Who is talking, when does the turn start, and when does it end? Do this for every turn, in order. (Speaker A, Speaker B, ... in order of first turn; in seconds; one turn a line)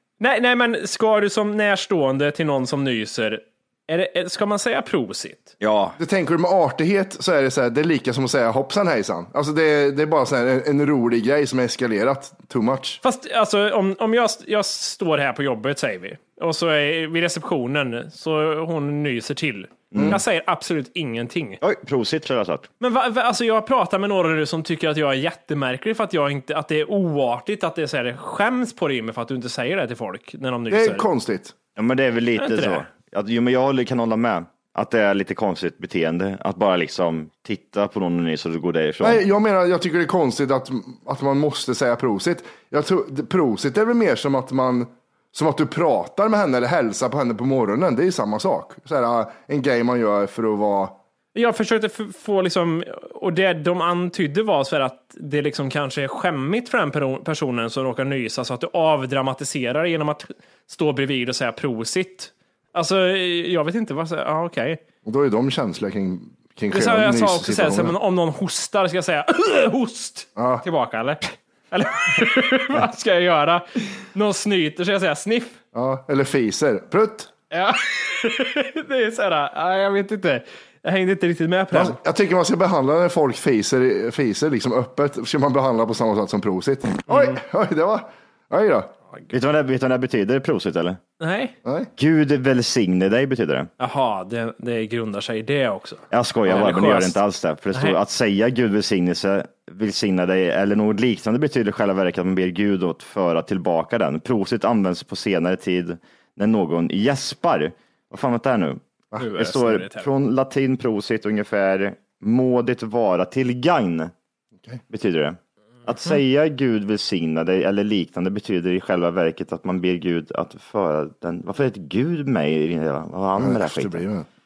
Speaker A: 0.2-5.5
Speaker B: 5.6-6.0
Speaker C: 6.0-13.0
Speaker A: 13.0-21.6
Speaker B: 19.9-20.2
Speaker B: 21.6-22.7
Speaker A: 22.8-31.1
Speaker C: 30.7-31.5
Speaker B: 31.8-39.2
Speaker A: 32.4-32.8
Speaker C: 39.0-51.0
Speaker A: 51.4-64.8
Speaker C: 65.0-67.9
Speaker A: 66.7-75.6
Speaker C: 70.4-70.6
Speaker C: 75.7-77.3
Speaker A: 77.5-82.0
Speaker C: 81.7-88.9
Speaker A: 87.1-87.4
Speaker B: 89.3-91.0
Speaker A: 91.2-91.5
Speaker C: 91.7-91.9
Speaker B: 92.0-93.7
Speaker A: 93.8-97.2
Speaker B: 96.1-108.8
Speaker A: 109.2-110.1
Speaker B: 109.3-114.1
Speaker B: 114.9-124.1
Speaker C: 123.4-124.3